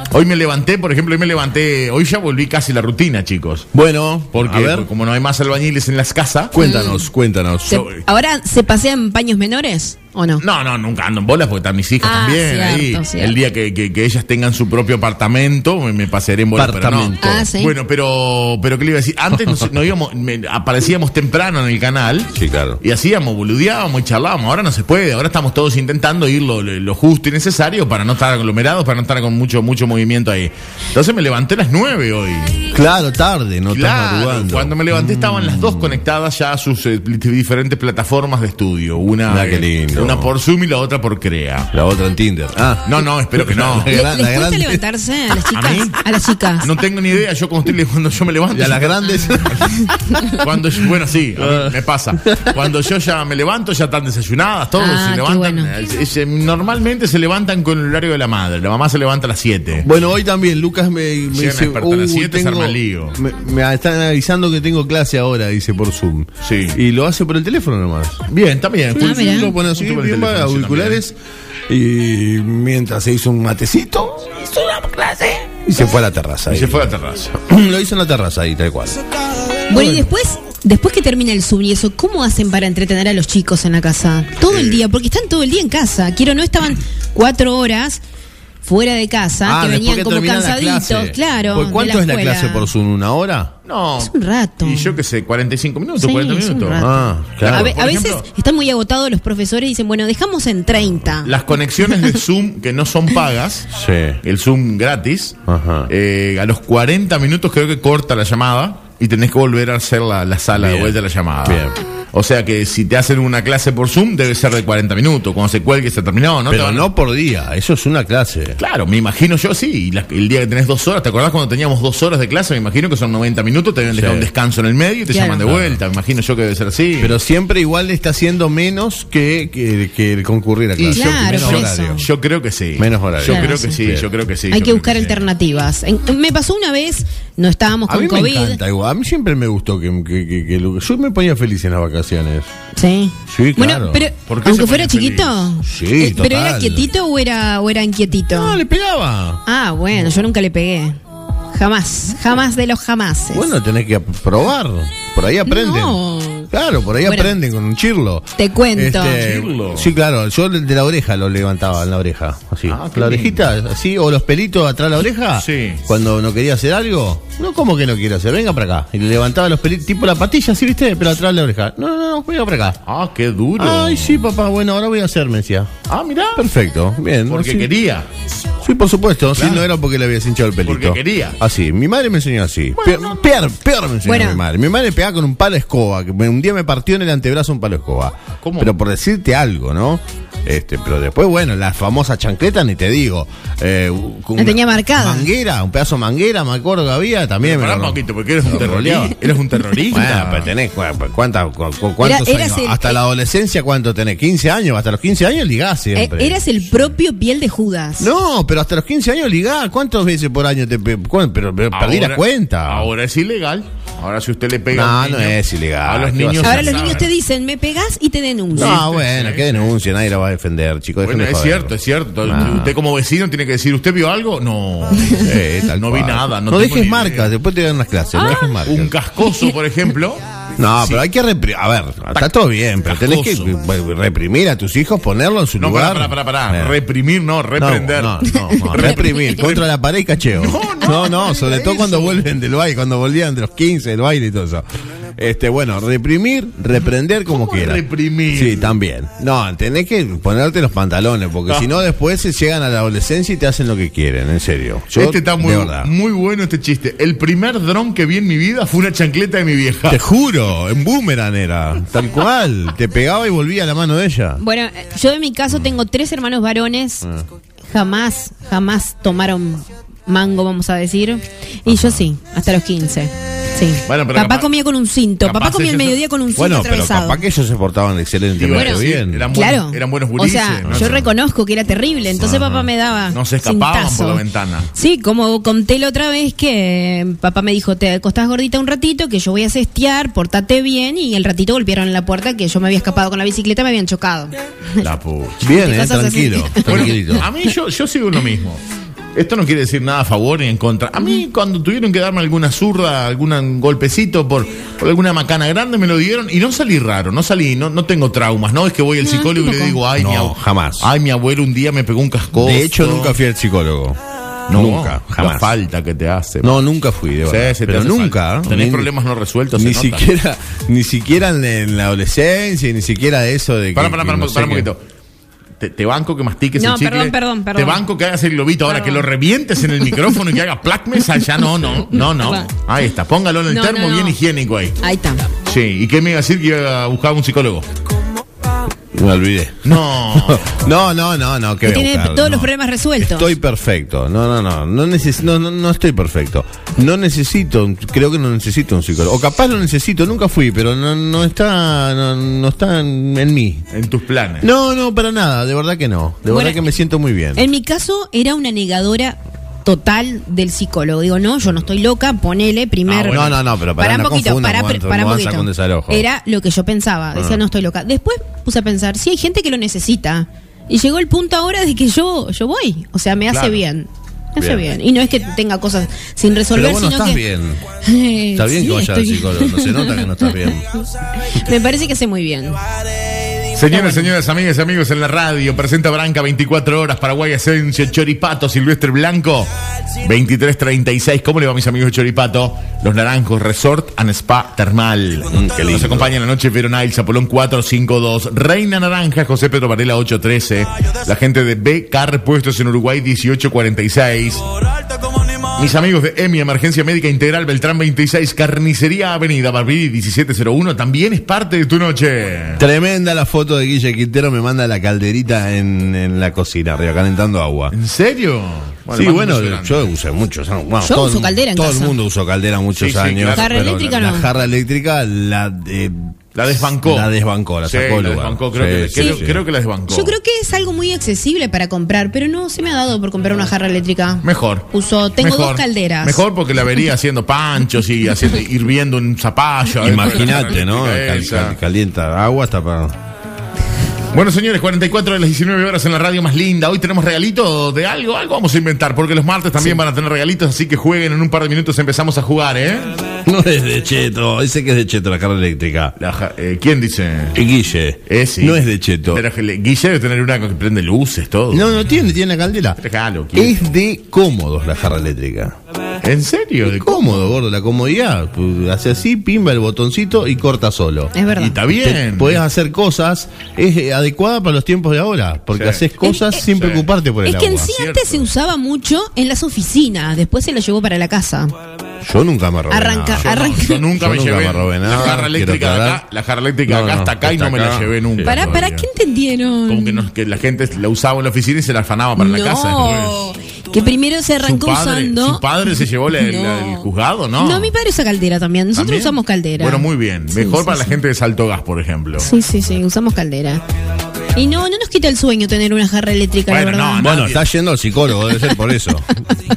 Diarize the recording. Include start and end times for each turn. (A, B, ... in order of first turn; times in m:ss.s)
0:00.1-0:03.7 A
0:03.7-0:04.9 B
0:04.3-0:06.5 A
0:06.5-0:07.8 B
0:06.6-0:07.1 C
0:07.7-0:10.4 C
0:10.4-0:32.7 A
0:12.0-0:13.4 C
0:16.5-0:17.5 B
0:17.2-0:17.7 C
0:22.3-0:22.8 B
0:32.7-0:36.0 B
0:33.7-0:41.7 A
0:39.3-0:40.3 B
0:41.7-0:44.8 B
0:42.8-0:43.9 A
0:43.8-0:46.7 C
0:45.5-0:46.0 A
0:46.6-0:59.9 A
0:48.5-0:49.8 B
0:51.4-0:52.6 B
0:54.7-0:55.7 C
0:59.8-1:08.2 B
1:01.3-1:03.2 A
1:06.4-1:06.8 A
1:08.3-1:11.0 A
1:08.9-1:11.1 B
1:09.0-1:09.5 C
1:11.7-1:19.0 B
1:16.5-1:17.3 A
1:19.7-1:20.1 B
1:19.7-1:28.0 C
1:24.4-1:24.8 A
1:28.6-1:32.7 C
1:29.4-1:33.5 B
1:33.6-1:38.3 A
1:34.0-1:35.0 C
1:36.0-1:41.4 C
1:36.8-1:37.8 B
1:41.2-1:43.7 A
1:43.7-1:44.2 B
1:44.2-1:45.4 A
1:45.5-1:45.9 B
1:45.9-1:56.9 A
1:50.5-1:51.8 B
1:56.5-1:58.6 B
1:58.6-2:07.2 A
2:03.9-2:04.3 B
2:05.1-2:05.4 C
2:05.4-2:05.8 B
2:07.0-2:12.0 B
2:10.8-2:15.3 A
2:10.9-2:12.0 C
2:12.8-2:14.1 B
2:13.2-2:13.8 C
2:14.5-2:18.6 C
2:17.9-2:22.5 B
2:22.7-2:28.6 C
2:23.3-2:24.0 B
2:24.3-2:25.5 A
2:25.6-2:26.9 B
2:28.3-2:29.4 B
2:29.4-2:31.0 C
2:31.5-2:33.5 C
2:33.3-2:52.8 B
2:35.4-2:36.5 C
2:37.0-2:37.4 C
2:38.4-2:39.3 C
2:38.9-2:39.9 A
2:42.6-2:43.5 A
2:45.4-2:45.8 A
2:52.8-2:54.2 A
2:53.6-2:55.7 B
2:55.9-2:56.4 A
2:56.4-2:57.7 B
2:57.3-2:58.1 A
2:58.6-3:19.2 B
2:59.3-2:59.7 A
3:00.6-3:01.4 A
3:02.8-3:03.2 A
3:04.0-3:04.4 C
3:08.4-3:08.7 A
3:14.4-3:15.3 C
3:17.4-3:20.5 A
3:19.9-3:26.8 B
3:22.0-3:23.0 C
3:25.9-3:28.1 C
3:28.0-3:32.9 B
3:31.7-3:37.1 A
3:34.7-3:37.0 B
3:36.4-3:38.8 C
3:38.5-3:39.8 A
3:38.5-3:42.7 B
3:41.0-3:47.3 A
3:45.2-3:48.9 B
3:48.1-3:48.7 C
3:48.2-3:50.2 A
3:49.2-3:49.5 C
3:50.6-3:56.8 B
3:50.8-3:51.0 A
3:52.8-3:53.6 A
3:55.6-3:59.6 A
3:57.6-4:04.6 B
3:58.2-3:59.5 C
4:00.3-4:02.3 A
4:05.2-4:15.9 B
4:07.3-4:08.8 A
4:14.9-4:20.0 A
4:19.9-4:24.4 B
4:24.4-4:27.0 C
4:27.7-4:37.2 C
4:31.7-4:32.1 B
4:33.8-4:34.4 A
4:35.2-4:36.0 A
4:36.4-4:39.3 B
4:38.3-4:41.1 A
4:38.5-4:44.2 C
4:40.6-4:41.1 B
4:42.2-4:42.7 B
4:43.1-4:44.7 A
4:44.7-4:54.9 C
4:54.8-4:55.5 A
4:55.4-4:57.3 B
4:55.5-4:57.1 C
4:56.6-4:58.6 A
4:59.1-5:13.2 A
5:09.0-5:09.8 C
5:10.0-5:10.9 B
5:12.3-5:14.0 B
5:14.5-5:16.6 A
5:14.5-5:15.5 B
5:16.4-5:18.9 B
5:17.2-5:20.1 A
5:19.5-5:24.7 B
5:23.7-5:24.8 A
5:25.6-5:34.8 A
5:26.6-5:27.8 C
5:28.7-5:29.1 C
5:29.7-5:30.1 C
5:31.9-5:32.5 C
5:33.5-5:34.2 C
5:34.8-5:35.3 C
5:35.4-5:37.6 A
5:38.9-5:53.6 B
5:39.6-5:40.5 A
5:41.6-5:43.3 C
5:53.7-5:54.5 A
5:54.4-5:57.4 B
5:56.2-5:56.6 C
5:57.3-6:17.2 C
6:02.8-6:03.4 A
6:03.1-6:06.0 B
6:13.3-6:13.6 A
6:14.4-6:14.6 B
6:16.5-6:17.6 B
6:17.8-6:22.6 C
6:18.3-6:20.6 B
6:23.5-6:44.4 A
6:23.6-6:24.1 C
6:35.3-6:36.1 B
6:45.4-6:52.6 A
6:52.6-6:57.7 B
6:57.7-6:59.9 A
6:58.9-7:09.4 B
7:00.8-7:02.0 C
7:02.8-7:04.3 A
7:03.3-7:04.3 C
7:06.3-7:07.1 A
7:07.6-7:10.2 A
7:09.0-7:09.2 C
7:09.9-7:16.2 C
7:14.2-7:21.6 A
7:19.8-7:22.9 B
7:24.1-7:33.0 A
7:33.2-7:35.9 B
7:36.0-7:37.4 A
7:37.3-7:39.2 B
7:38.1-7:41.8 A
7:41.5-7:42.8 B
7:42.8-7:43.6 A
7:43.3-7:45.5 B
7:46.0-7:47.3 A
7:46.6-7:51.1 B
7:51.1-7:51.6 C
7:51.3-7:52.4 A
7:51.7-7:57.7 B
7:55.5-7:55.8 A
7:56.0-7:56.4 C
7:56.4-7:56.9 A
7:57.2-8:01.5 C
7:57.6-7:58.3 A
8:02.0-8:03.3 B
8:02.7-8:03.8 C
8:03.2-8:08.9 A
8:03.8-8:06.0 B
8:06.7-8:08.6 B
8:08.2-8:10.0 C
8:09.7-8:13.2 A
8:12.2-8:21.0 C
8:14.4-8:17.7 A
8:18.7-8:22.3 A
8:22.2-8:23.6 C
8:24.3-8:27.2 C
8:26.5-8:27.4 A
8:27.0-8:29.1 B